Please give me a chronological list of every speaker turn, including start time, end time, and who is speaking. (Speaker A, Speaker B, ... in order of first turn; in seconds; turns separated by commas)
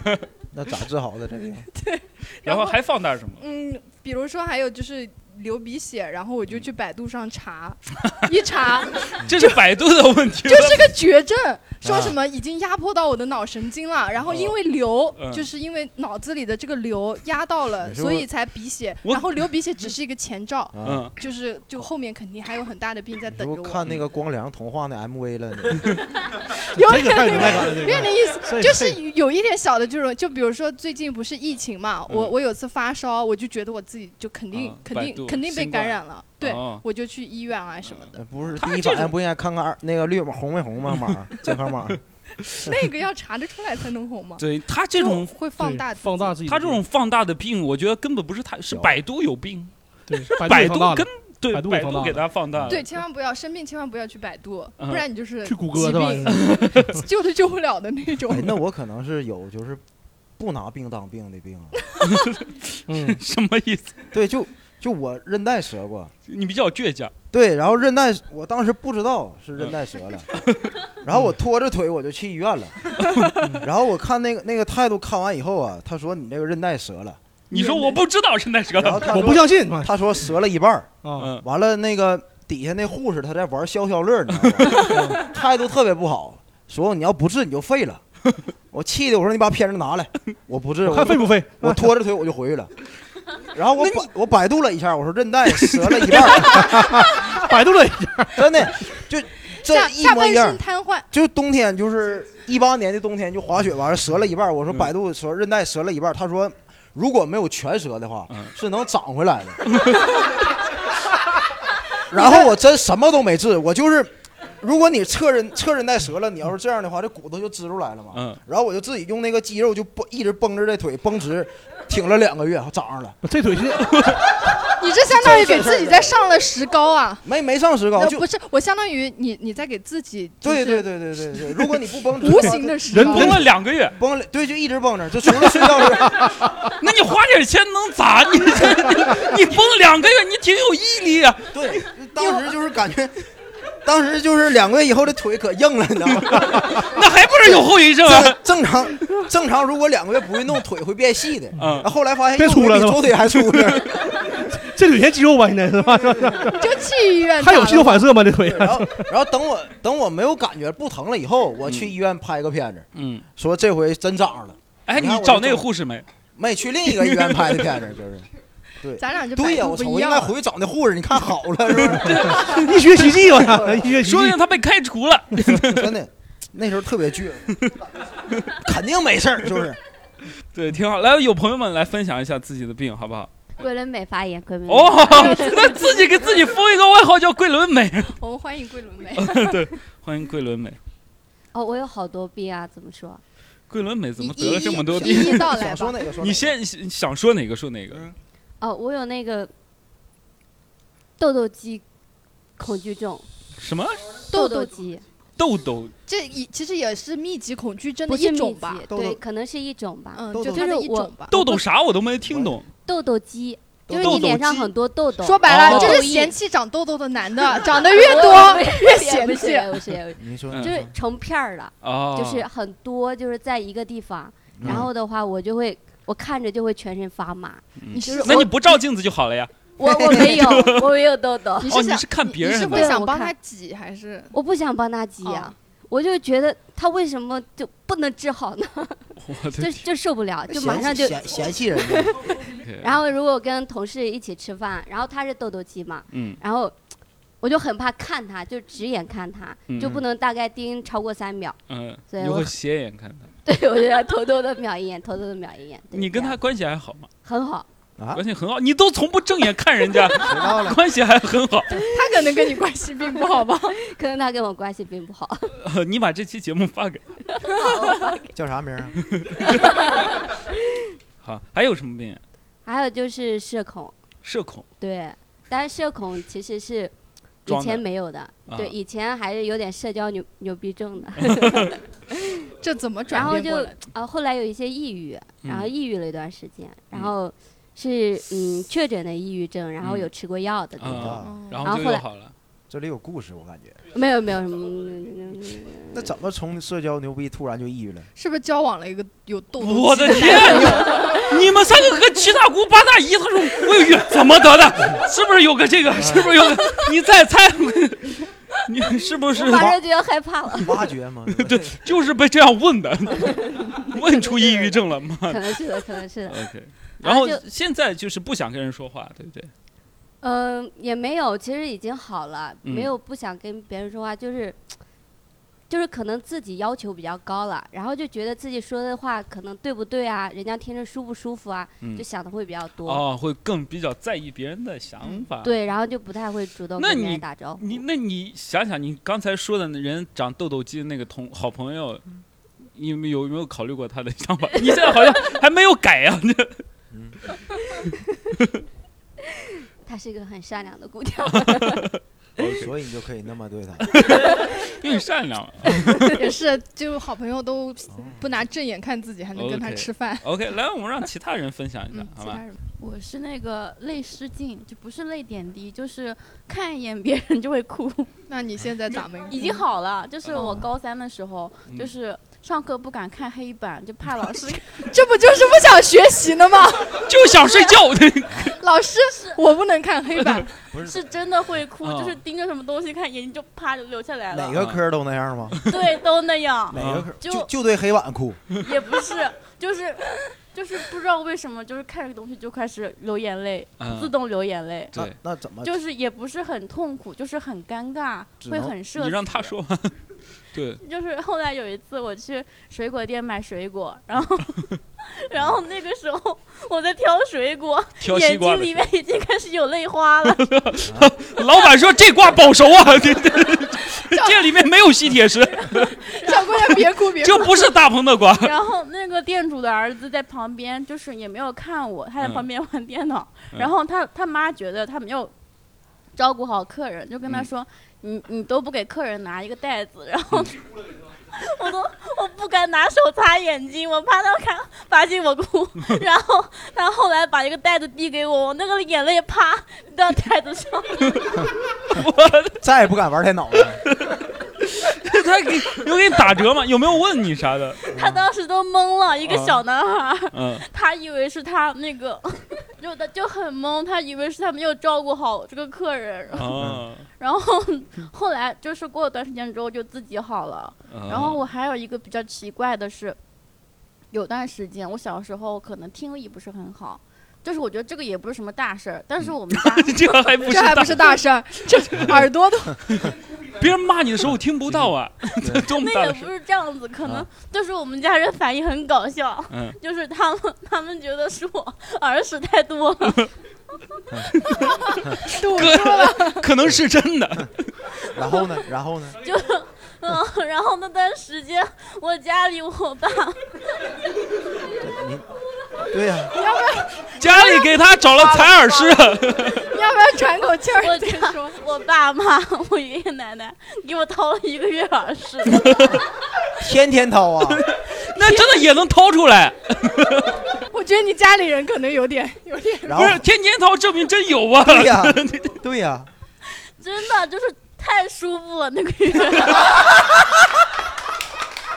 Speaker A: 0.5-1.7, Speaker B: 1.7-2.8, Speaker C: 2.4-3.4, Speaker B: 3.4-9.5, Speaker C: 9.2-10.9, Speaker B: 10.4-23.8, Speaker A: 11.8-12.1, Speaker C: 14.3-14.5, Speaker C: 15.2-15.5, Speaker A: 17.8-18.3, Speaker C: 19.0-19.9, Speaker A: 20.7-21.1, Speaker C: 20.8-21.1, Speaker A: 23.3-25.9, Speaker B: 26.6-39.1, Speaker D: 26.8-29.0, Speaker C: 32.1-32.3, Speaker C: 34.5-36.8, Speaker A: 38.1-42.0, Speaker C: 41.0-41.5, Speaker B: 42.6-46.4, Speaker C: 44.4-45.3, Speaker D: 45.6-46.8, Speaker C: 46.5-49.7, Speaker D: 50.1-52.2, Speaker C: 50.2-52.9, Speaker B: 52.7-58.6, Speaker C: 54.8-55.0, Speaker D: 55.4-57.0, Speaker C: 56.3-56.9, Speaker A: 58.3-59.8, Speaker A: 60.4-61.8, Speaker D: 62.9-63.2, Speaker C: 63.0-64.0, Speaker A: 64.1-66.1, Speaker C: 66.3-67.1, Speaker A: 67.3-70.3, Speaker C: 70.4-70.7, Speaker A: 71.0-72.8, Speaker C: 73.0-73.3, Speaker D: 73.4-73.7, Speaker A: 73.6-77.2, Speaker C: 77.5-79.2, Speaker B: 77.5-78.0, Speaker A: 78.8-88.0, Speaker D: 78.9-79.9, Speaker D: 81.0-81.3, Speaker C: 81.2-81.4, Speaker D: 84.8-85.2, Speaker A: 88.7-92.7, Speaker D: 90.8-91.8, Speaker A: 93.5-96.7, Speaker C: 93.8-94.1, Speaker D: 96.5-98.4, Speaker A: 98.3-110.0, Speaker B: 99.6-101.1, Speaker A: 112.1-123.2, Speaker B: 112.2-112.5, Speaker C: 118.1-118.4, Speaker D: 123.2-124.0, Speaker C: 123.8-124.2, Speaker B: 124.8-127.2, Speaker A: 125.0-126.2, Speaker A: 127.2-128.2, Speaker B: 127.9-130.9, Speaker A: 130.4-133.3, Speaker B: 131.4-131.7, Speaker B: 132.2-133.4, Speaker D: 132.3-133.4, Speaker C: 133.1-133.9, Speaker A: 133.9-136.2, Speaker C: 136.4-141.9, Speaker A: 141.5-143.3, Speaker A: 143.8-146.8, Speaker C: 146.3-148.4, Speaker A: 147.4-153.9, Speaker D: 151.6-153.4, Speaker C: 151.6-151.9, Speaker D: 154.5-156.6, Speaker B: 156.6-158.1, Speaker D: 157.4-159.1, Speaker A: 158.4-165.7, Speaker C: 161.7-161.9, Speaker C: 162.9-163.2, Speaker C: 164.8-166.1, Speaker A: 166.3-168.3, Speaker C: 166.8-167.6, Speaker A: 168.8-172.5, Speaker B: 169.0-170.3, Speaker C: 172.0-173.1, Speaker D: 172.1-174.4, Speaker C: 174.0-175.9, Speaker A: 175.5-177.8, Speaker A: 178.6-179.8, Speaker C: 180.5-183.3, Speaker E: 183.6-186.1, Speaker C: 184.7-188.2, Speaker B: 185.3-185.8, Speaker B: 188.1-189.7, Speaker C: 189.1-190.8, Speaker E: 191.5-193.2, Speaker C: 193.7-195.6, Speaker B: 194.2-196.0, Speaker A: 194.4-196.6, Speaker C: 196.2-198.1, Speaker E: 198.6-199.5, Speaker E: 201.2-201.8, Speaker E: 202.6-203.3, Speaker C: 203.6-204.2, Speaker E: 204.3-205.0, Speaker B: 204.3-204.8, Speaker C: 205.4-205.9, Speaker B: 206.1-208.9, Speaker E: 208.1-211.4, Speaker A: 208.9-209.2, Speaker B: 210.1-211.4, Speaker A: 210.3-210.7, Speaker C: 211.3-212.7, Speaker A: 212.2-212.6, Speaker E: 212.8-216.3, Speaker A: 213.9-214.3, Speaker B: 214.0-220.0, Speaker C: 214.0-214.4, Speaker C: 215.4-216.0, Speaker E: 217.7-228.5, Speaker A: 220.2-220.9, Speaker C: 220.5-220.8, Speaker C: 221.8-222.4, Speaker A: 224.6-224.9, Speaker C: 227.8-231.0, Speaker B: 227.9-228.8, Speaker E: 229.8-231.8, Speaker B: 231.6-234.3, Speaker C: 231.6-232.9, Speaker E: 232.7-233.3, Speaker E: 234.3-246.7, Speaker B: 235.2-235.5, Speaker C: 239.2-239.9, Speaker A: 240.5-242.5, Speaker C: 242.6-242.9, Speaker C: 246.1-246.4, Speaker E: 247.4-251.6, Speaker C: 249.7-250.0, Speaker C: 251.7-253.3, Speaker E: 252.1-252.5, Speaker E: 253.4-256.4, Speaker C: 255.9-257.1, Speaker E: 257.2-257.7, Speaker A: 258.0-258.2, Speaker C: 258.1-261.7, Speaker A: 260.2-260.8, Speaker B: 261.8-263.8, Speaker E: 263.8-265.5, Speaker C: 265.6-267.0, Speaker E: 267.4-268.3, Speaker A: 268.3-269.0, Speaker C: 269.1-270.0, Speaker E: 269.6-270.1, Speaker C: 271.2-272.2, Speaker E: 272.6-273.9, Speaker C: 274.2-274.6, Speaker E: 274.8-276.9, Speaker E: 277.4-281.8, Speaker C: 277.5-277.8, Speaker C: 278.4-278.7, Speaker C: 281.2-281.7, Speaker B: 282.6-283.8, Speaker E: 283.1-292.0, Speaker C: 285.4-285.7, Speaker C: 289.8-290.1, Speaker C: 290.8-292.3, Speaker A: 290.8-291.3, Speaker B: 291.2-291.6, Speaker A: 292.7-293.8, Speaker E: 293.9-296.0, Speaker A: 295.9-298.1, Speaker B: 298.1-301.3, Speaker C: 299.6-309.7, Speaker E: 300.6-301.0, Speaker A: 305.9-306.4, Speaker E: 309.3-310.8, Speaker A: 310.6-311.8, Speaker C: 311.3-319.5, Speaker E: 314.1-317.4, Speaker E: 320.2-324.6, Speaker C: 322.6-322.9, Speaker E: 325.7-333.0, Speaker C: 332.8-335.5, Speaker E: 335.4-337.8, Speaker C: 336.8-342.0, Speaker C: 342.7-346.6, Speaker A: 346.9-347.2, Speaker E: 349.8-351.9, Speaker C: 351.3-352.7, Speaker A: 352.5-354.2, Speaker C: 353.9-356.2, Speaker B: 356.0-360.2, Speaker A: 357.9-358.2, Speaker C: 359.4-362.4, Speaker B: 361.9-362.6, Speaker F: 362.8-368.1, Speaker B: 368.3-369.6, Speaker F: 369.2-374.7, Speaker A: 370.3-370.6, Speaker B: 374.8-377.1, Speaker C: 377.1-378.6, Speaker B: 378.6-380.5, Speaker A: 380.7-381.1, Speaker F: 380.8-384.6, Speaker C: 381.8-382.2, Speaker A: 384.3-385.6, Speaker F: 385.6-387.5, Speaker A: 386.7-388.4, Speaker C: 386.7-387.1, Speaker F: 388.6-394.9, Speaker C: 393.8-394.1, Speaker A: 394.9-395.7, Speaker F: 395.6-399.5, Speaker A: 398.4-398.7, Speaker C: 398.9-400.0, Speaker C: 400.5-400.8, Speaker F: 400.8-410.4, Speaker C: 408.0-408.8, Speaker C: 410.3-415.9, Speaker A: 410.8-411.1, Speaker B: 414.1-414.4, Speaker F: 415.7-416.7, Speaker B: 415.9-417.6, Speaker C: 417.2-418.5, Speaker F: 418.4-425.3, Speaker F: 426.1-430.6, Speaker F: 431.3-441.3, Speaker C: 441.9-442.6, Speaker A: 442.6-443.8, Speaker C: 443.9-447.8, Speaker F: 447.9-456.5, Speaker A: 447.9-448.2, Speaker C: 449.2-449.6, Speaker C: 450.3-450.6, Speaker C: 456.3-457.1, Speaker A: 456.5-456.8, Speaker F: 457.2-463.2, Speaker C: 460.9-461.4, Speaker F: 464.1-470.0, Speaker C: 469.5-471.2, Speaker B: 470.4-473.1, Speaker C: 473.0-476.3, Speaker A: 474.7-475.7, Speaker F: 475.7-483.3, Speaker C: 479.5-479.8, Speaker A: 484.1-484.3, Speaker B: 485.2-486.5, Speaker C: 485.5-487.7, Speaker A: 488.1-489.2, Speaker F: 489.2-493.6, Speaker A: 494.8-495.2, Speaker A: 495.9-496.3, Speaker B: 496.3-497.6, Speaker C: 497.1-499.7, Speaker B: 498.2-498.9, Speaker B: 499.6-501.6, Speaker F: 500.8-505.7, Speaker C: 505.5-506.0, Speaker A: 506.6-507.6, Speaker C: 507.5-510.4, Speaker B: 510.7-513.0, Speaker A: 512.9-513.2, Speaker C: 512.9-515.6, Speaker A: 514.6-516.1, Speaker F: 516.6-520.1